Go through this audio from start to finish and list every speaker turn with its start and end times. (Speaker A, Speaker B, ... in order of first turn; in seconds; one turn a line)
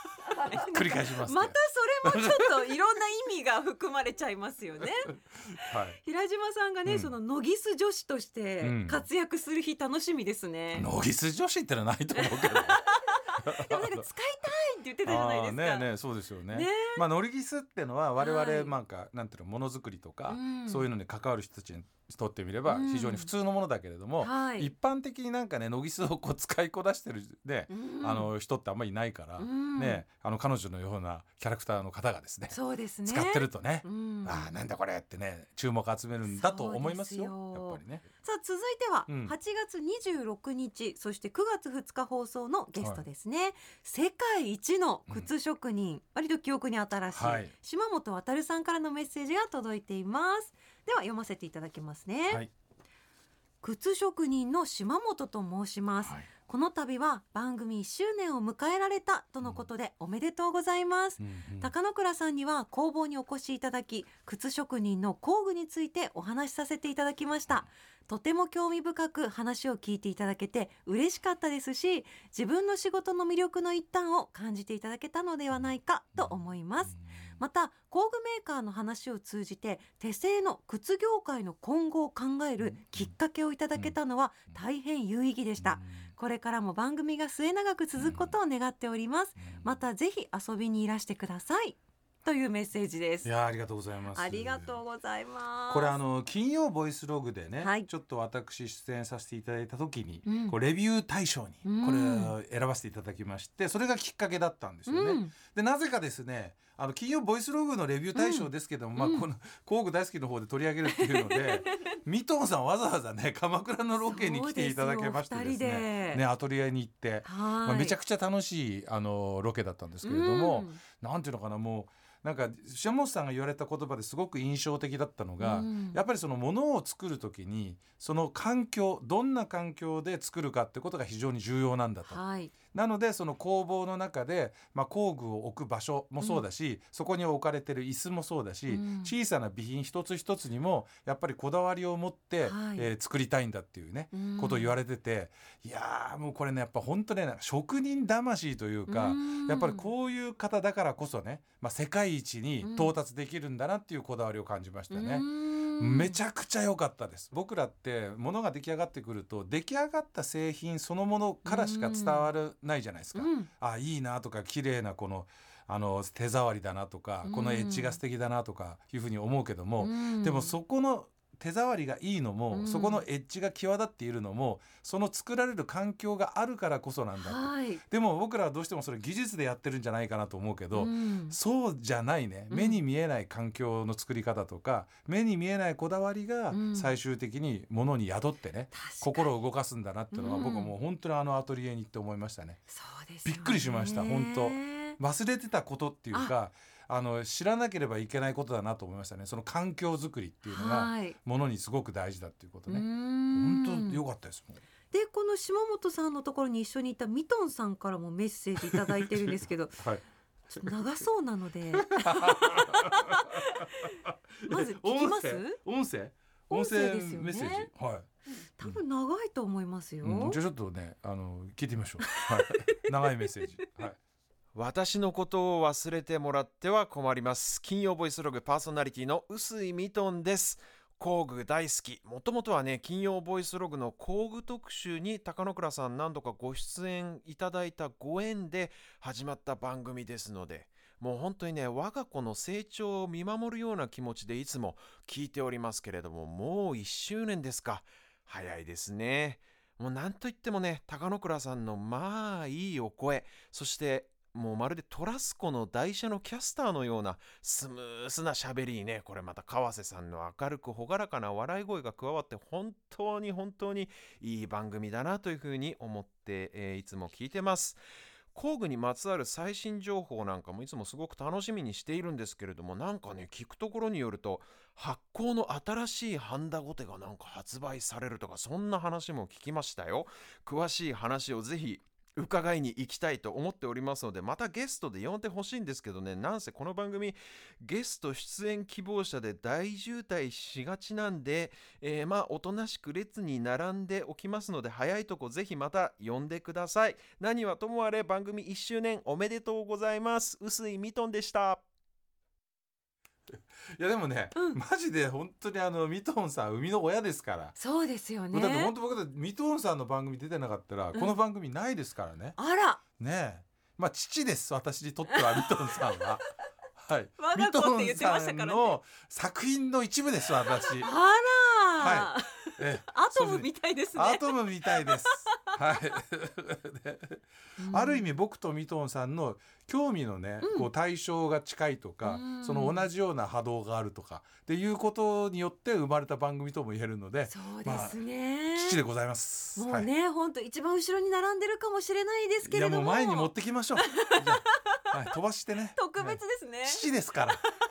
Speaker A: 0.3-10.9
Speaker B: 0.5-2.5
Speaker B: 5.7-6.0
Speaker B: 6.8-7.1
Speaker B: 8.6-9.1
Speaker B: 10.7-12.8
Speaker A: 12.2-15.9
Speaker B: 13.4-14.1
Speaker B: 15.0-38.0
Speaker A: 16.5-17.0
Speaker A: 18.2-18.7
Speaker A: 20.3-20.9
Speaker A: 22.7-23.3
Speaker A: 24.2-24.7
Speaker A: 27.7-28.3
Speaker A: 29.4-30.0
Speaker A: 32.5-34.5
Speaker A: 36.3-52.5
Speaker B: 39.1-39.4
Speaker B: 42.8-43.0
Speaker B: 47.1-47.5
Speaker A: 53.6-93.3
Speaker B: 61.2-61.7
Speaker B: 75.6-76.4
Speaker B: 76.9-77.3
Speaker B: 82.7-83.1
Speaker B: 85.6-86.1
Speaker B: 88.0-88.4
Speaker B: 89.5-89.8
Speaker B: 93.2-94.8
Speaker A: 94.1-96.0
Speaker B: 95.7-132.2
Speaker A: 97.6-97.9
Speaker A: 100.3-100.6
Speaker A: 101.6-102.3
Speaker A: 104.9-105.3
Speaker A: 108.2-109.3
Speaker A: 110.9-112.0
Speaker A: 114.0-116.2
Speaker A: 117.2-118.0
Speaker A: 120.0-120.8
Speaker A: 125.4-126.0
Speaker A: 132.1-132.5
Speaker B: 132.7-192.6
Speaker A: 138.7-139.1
Speaker A: 142.4-142.9
Speaker A: 144.1-144.7
Speaker A: 148.9-149.9
Speaker A: 152.6-152.9
Speaker A: 154.9-156.2
Speaker A: 161.5-162.3
Speaker A: 163.1-163.5
Speaker A: 167.2-168.0
Speaker A: 169.8-170.6
Speaker A: 172.5-173.1
Speaker A: 177.2-177.8
Speaker A: 180.7-181.4
Speaker A: 182.5-182.8
Speaker A: 186.5-186.9
Speaker A: 188.7-189.3
Speaker A: 190.1-190.7
Speaker A: 192.7-195.0
Speaker B: 193.2-204.6
Speaker A: 200.5-201.2
Speaker A: 202.7-204.0
Speaker A: 204.9-209.8
Speaker B: 208.6-210.7
Speaker A: 210.6-213.9
Speaker B: 211.8-218.1
Speaker A: 214.5-215.6
Speaker A: 216.5-217.7
Speaker A: 218.6-220.4
Speaker B: 220.0-224.0
Speaker A: 222.1-222.9
Speaker C: 224.6-267.8
Speaker C: 268.4-301.6
Speaker B: 303.7-307.6
Speaker A: 304.4-304.6
Speaker A: 307.6-308.7
Speaker B: 308.3-312.4
Speaker A: 312.4-312.8
Speaker B: 313.0-316.2
Speaker A: 315.1-315.8
Speaker B: 316.8-320.9
Speaker A: 317.2-318.8
Speaker A: 320.7-325.6
Speaker B: 321.8-338.0
Speaker A: 327.6-328.0
Speaker A: 330.4-330.7
Speaker A: 332.0-332.9
Speaker A: 337.3-338.8
Speaker B: 338.6-339.9
Speaker A: 339.6-344.8
Speaker B: 342.4-347.4
Speaker A: 345.8-347.5